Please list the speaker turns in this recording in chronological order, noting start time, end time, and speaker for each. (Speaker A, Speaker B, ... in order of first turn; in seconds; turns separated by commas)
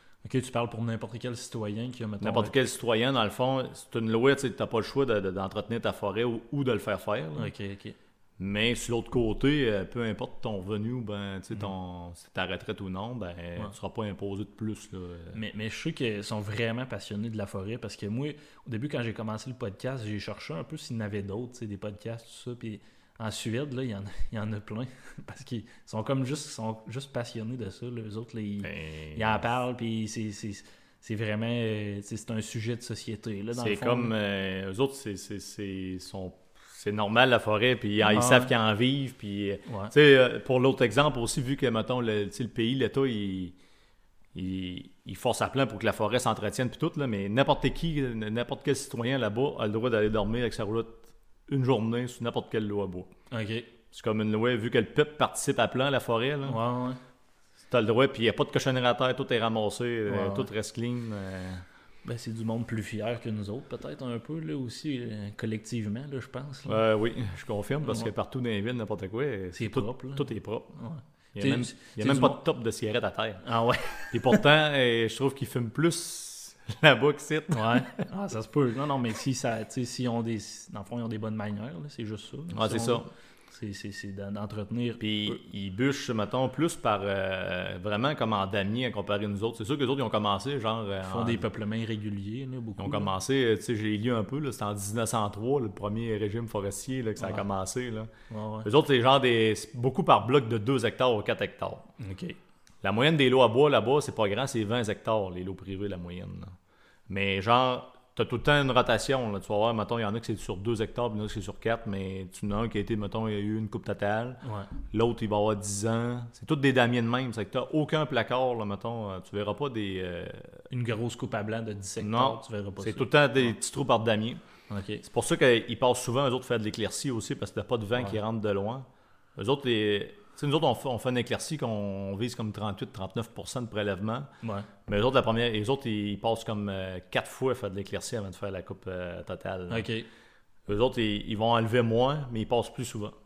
Speaker A: 0.2-2.6, Speaker B: 2.2-7.5, Speaker A: 7.4-8.0, Speaker B: 8.4-15.4, Speaker A: 15.3-34.1, Speaker B: 28.6-29.4, Speaker B: 33.5-43.6, Speaker A: 38.0-38.5, Speaker A: 39.7-39.9, Speaker B: 44.3-53.1, Speaker A: 53.3-53.7, Speaker B: 53.9-56.6, Speaker A: 56.4-57.0, Speaker B: 57.7-61.6, Speaker A: 60.1-60.5, Speaker A: 62.0-66.8, Speaker B: 66.7-70.8, Speaker A: 69.5-72.4, Speaker B: 71.3-73.4, Speaker A: 73.4-74.4, Speaker B: 74.1-78.0, Speaker A: 77.5-85.4, Speaker B: 82.5-83.1, Speaker B: 85.0-91.4, Speaker A: 91.0-93.1, Speaker B: 92.8-98.1, Speaker A: 97.2-97.5, Speaker A: 98.3-98.7, Speaker B: 98.6-101.9, Speaker A: 102.0-102.4, Speaker B: 102.8-106.5, Speaker B: 107.1-120.6, Speaker A: 114.4-114.7, Speaker A: 120.7-123.5, Speaker B: 122.0-124.4, Speaker A: 124.7-125.0, Speaker B: 125.0-134.3, Speaker A: 134.4-134.7, Speaker B: 134.9-139.9, Speaker A: 139.7-140.1, Speaker B: 140.7-143.2